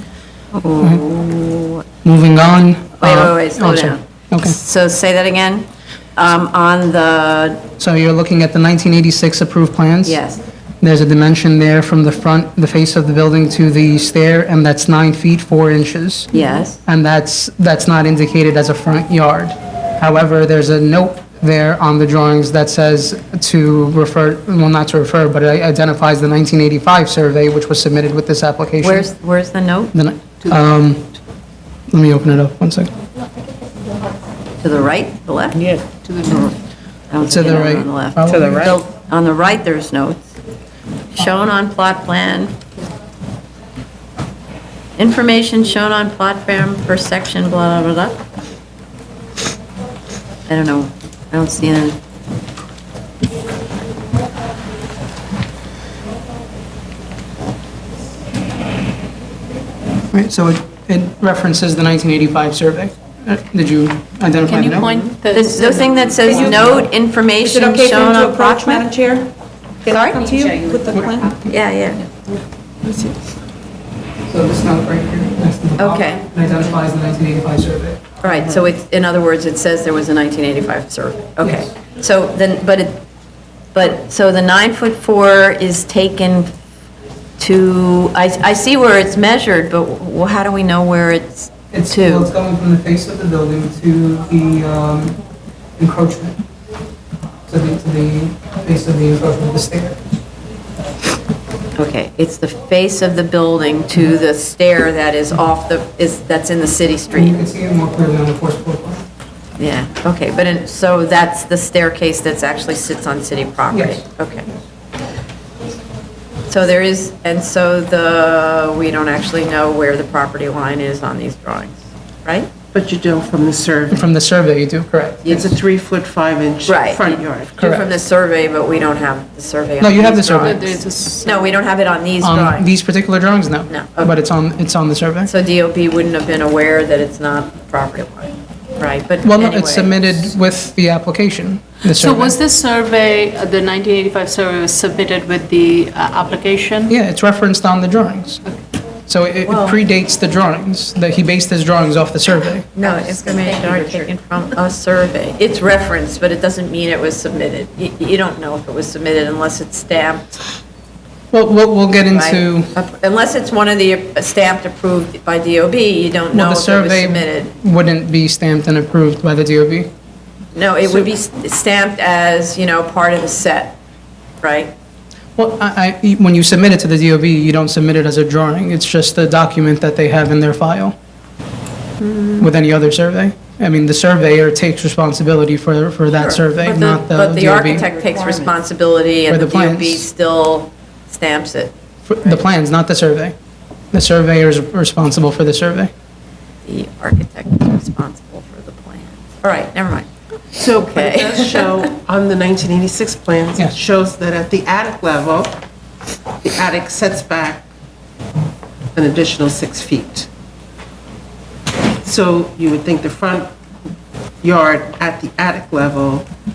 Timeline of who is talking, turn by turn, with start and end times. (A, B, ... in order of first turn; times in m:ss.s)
0:00.5-0:01.8 A
0:02.0-0:04.6 B
0:03.0-0:07.6 A
0:07.8-0:10.2 B
0:10.0-0:10.4 A
0:10.8-0:16.3 B
0:16.3-0:16.8 A
0:16.8-0:29.1 B
0:28.8-0:29.9 A
0:29.9-0:31.1 B
0:31.9-0:32.9 B
0:34.6-0:35.6 A
0:35.6-0:35.8 C
0:36.0-0:36.5 D
0:37.1-0:40.3 A
0:37.2-0:38.6 B
0:38.3-0:38.8 C
0:41.1-0:42.6 A
0:45.0-0:48.2 A
0:50.5-0:52.0 A
1:00.1-1:05.0 B
1:04.5-1:06.8 D
1:05.2-1:08.9 A
1:07.4-1:08.8 E
1:07.9-1:08.8 C
1:09.9-1:11.3 E
1:10.0-1:11.3 C
1:10.9-1:11.2 B
1:11.4-1:12.1 A
1:14.3-1:18.1 B
1:15.8-1:16.5 A
1:18.2-1:23.0 A
1:23.7-1:26.5 A
1:27.4-1:32.3 A
1:31.7-1:35.2 B
1:35.8-1:36.4 B
1:37.5-1:40.0 B
1:41.8-1:47.4 A
1:47.1-1:49.0 B
1:49.6-1:54.5 A
1:53.7-1:54.0 B
1:56.5-2:02.5 A
2:02.7-2:04.1 C
2:03.9-2:05.4 B
2:05.2-2:07.6 C
2:06.7-2:12.7 A
2:07.6-2:07.8 B
2:09.8-2:10.6 B
2:10.4-2:11.5 D
2:12.2-2:15.3 B
2:13.7-2:14.1 A
2:15.2-2:20.3 A
2:19.2-2:22.3 B
2:21.9-2:26.9 D
2:26.9-2:28.4 B
2:29.1-2:32.7 B
2:29.4-2:29.8 A
2:32.7-2:40.4 A
2:41.3-2:42.7 B
2:42.1-2:47.5 A
2:46.3-2:49.9 B
2:50.5-2:53.8 A
2:54.4-2:54.7 A
2:55.4-3:00.9 B
3:02.0-3:02.4 A
3:02.4-3:07.8 B
3:06.2-3:12.4 A
3:07.8-3:08.5 C
3:09.3-3:10.1 B
3:12.1-3:13.3 B
3:13.9-3:15.9 B
3:16.6-3:21.8 A
3:20.6-3:25.6 C
3:26.4-3:27.7 C
3:28.9-3:30.3 C
3:32.0-3:33.5 C
3:34.4-3:36.3 C